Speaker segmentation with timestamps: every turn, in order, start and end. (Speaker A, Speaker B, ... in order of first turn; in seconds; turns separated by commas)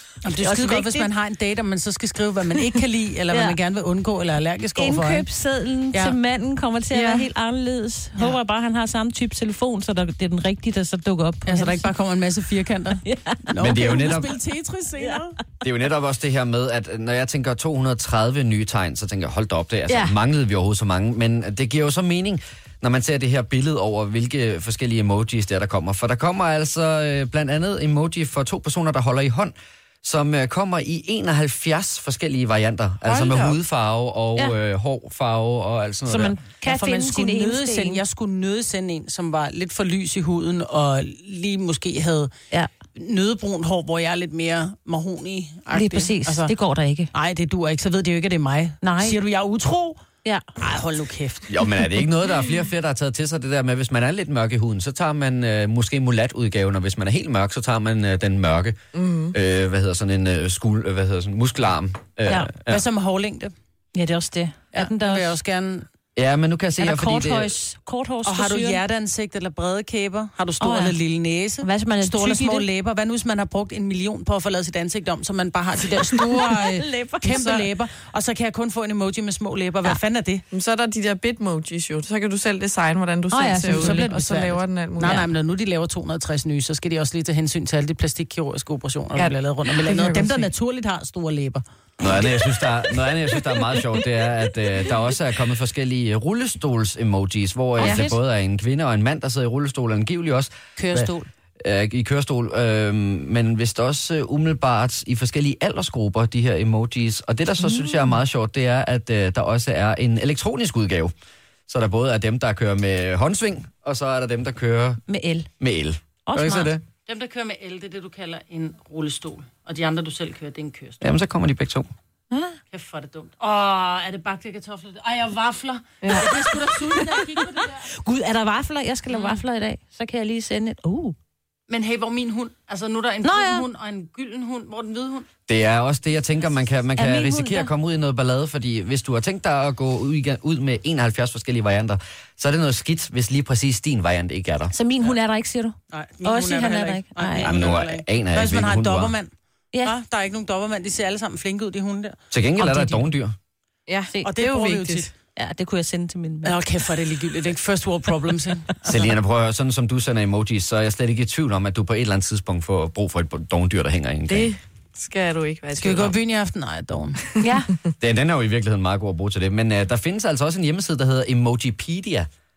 Speaker A: 0.2-5.2, Speaker B: 0.4-1.1, Speaker B: 3.3-3.5, Speaker B: 4.8-11.9, Speaker C: 6.9-7.3, Speaker A: 11.4-15.4, Speaker B: 13.0-14.1, Speaker D: 13.6-14.3, Speaker D: 15.6-36.4, Speaker B: 19.9-20.1, Speaker C: 33.1-33.5, Speaker B: 36.1-38.0, Speaker A: 36.5-42.3, Speaker A: 42.9-46.5, Speaker B: 45.7-47.1, Speaker A: 47.1-50.0, Speaker B: 48.8-49.2, Speaker A: 50.6-51.6, Speaker D: 51.5-58.8, Speaker C: 58.9-59.3, Speaker D: 59.3-62.8, Speaker A: 62.6-63.5, Speaker B: 63.9-65.4, Speaker A: 64.7-65.8, Speaker D: 66.1-67.5, Speaker B: 66.8-68.8, Speaker A: 68.2-80.4, Speaker B: 70.6-71.0, Speaker B: 71.6-72.7, Speaker B: 76.5-77.6, Speaker C: 80.5-85.2, Speaker B: 83.3-84.1, Speaker A: 83.5-91.6, Speaker B: 85.0-85.3, Speaker C: 89.1-90.5, Speaker D: 92.0-111.1, Speaker B: 97.8-98.1, Speaker A: 100.8-101.3, Speaker B: 107.6-108.0, Speaker D: 111.7-115.0, Speaker B: 115.1-115.5, Speaker D: 115.6-116.8, Speaker B: 116.2-116.7, Speaker A: 117.0-121.0, Speaker D: 121.0-121.9, Speaker B: 122.3-122.6, Speaker A: 122.7-127.8, Speaker C: 126.0-126.3, Speaker B: 126.1-126.4, Speaker B: 127.8-131.1, Speaker A: 131.7-135.3, Speaker B: 133.2-133.7, Speaker D: 135.5-144.7, Speaker B: 137.0-137.7, Speaker B: 144.7-147.6, Speaker A: 145.9-149.3, Speaker D: 147.4-149.1, Speaker A: 149.8-153.0, Speaker D: 152.3-153.3, Speaker C: 153.9-155.1, Speaker A: 154.2-155.1, Speaker B: 155.3-156.6, Speaker A: 156.4-159.1, Speaker D: 158.8-164.5, Speaker C: 164.3-166.1, Speaker A: 165.7-167.2, Speaker B: 167.4-167.7, Speaker D: 168.0-172.3